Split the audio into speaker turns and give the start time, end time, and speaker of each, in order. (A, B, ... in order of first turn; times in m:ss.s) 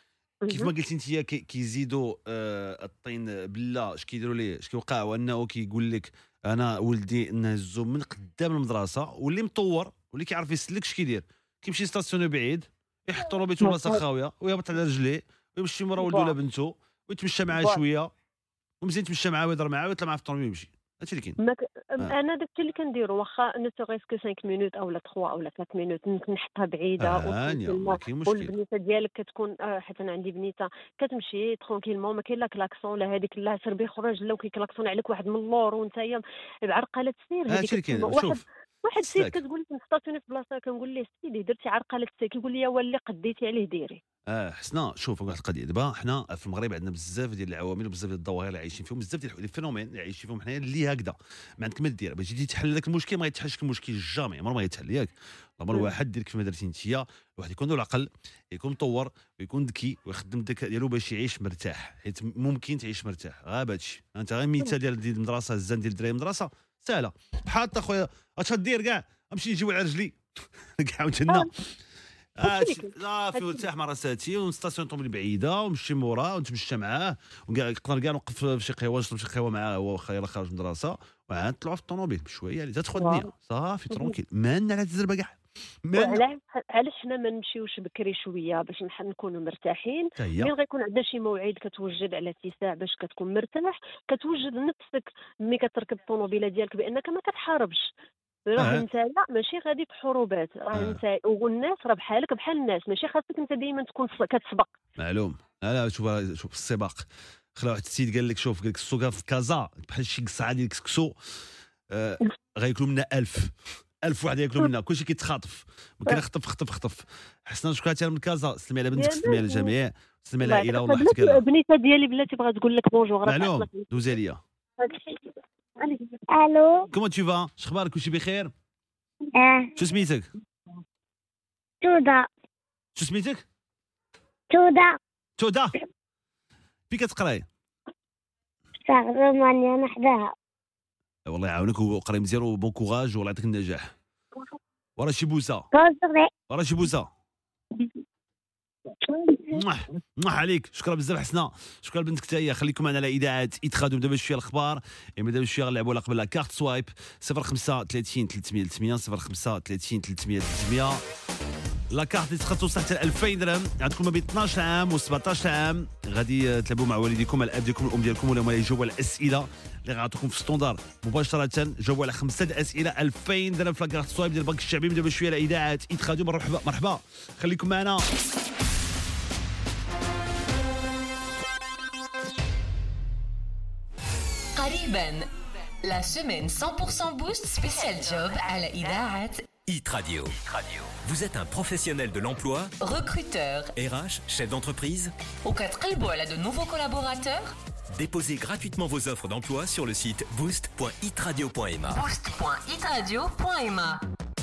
0:00.4-0:00.7 A
0:00.5-0:18.1 B
0:13.3-0:14.0 A
0:16.0-0:16.3 A
0:17.6-0:17.8 A
0:18.8-0:21.4 B
0:21.4-0:44.0 A
0:27.0-0:28.5 B
0:37.5-0:38.4 B
0:39.0-0:39.4 B
0:44.3-1:10.2 B
1:10.8-1:11.5 B
1:12.4-1:26.2 B
1:12.4-1:13.6 A
1:23.0-1:23.3 A
1:25.9-1:37.8 A
1:30.2-1:30.5 B
1:38.5-1:44.7 A
1:38.6-1:38.8 B
1:40.7-1:41.0 B
1:45.0-1:51.1 B
1:51.9-2:01.4 B
1:58.9-1:59.7 A
2:00.4-2:03.8 A
2:03.2-2:04.4 B
2:04.8-2:05.1 C
2:06.3-2:06.8 C
2:06.9-2:08.5 B
2:09.4-2:09.7 C
2:09.8-2:10.3 B
2:11.8-2:12.2 C
2:13.0-2:13.4 B
2:14.5-2:14.9 C
2:15.4-2:15.7 B
2:16.9-2:17.5 B
2:18.9-2:20.3 C
2:21.3-2:23.9 B
2:25.0-2:25.7 B
2:25.7-2:26.3 C
2:26.5-2:27.1 B
2:29.1-2:29.5 C
2:29.5-2:41.0 B
2:41.9-2:58.1 B
3:04.6-3:05.3 D
3:05.8-3:09.5 D
3:09.6-3:12.7 E
3:12.8-3:13.7 D
3:13.8-3:15.1 E
3:15.4-3:17.5 D
3:17.9-3:22.0 E
3:21.9-3:24.0 D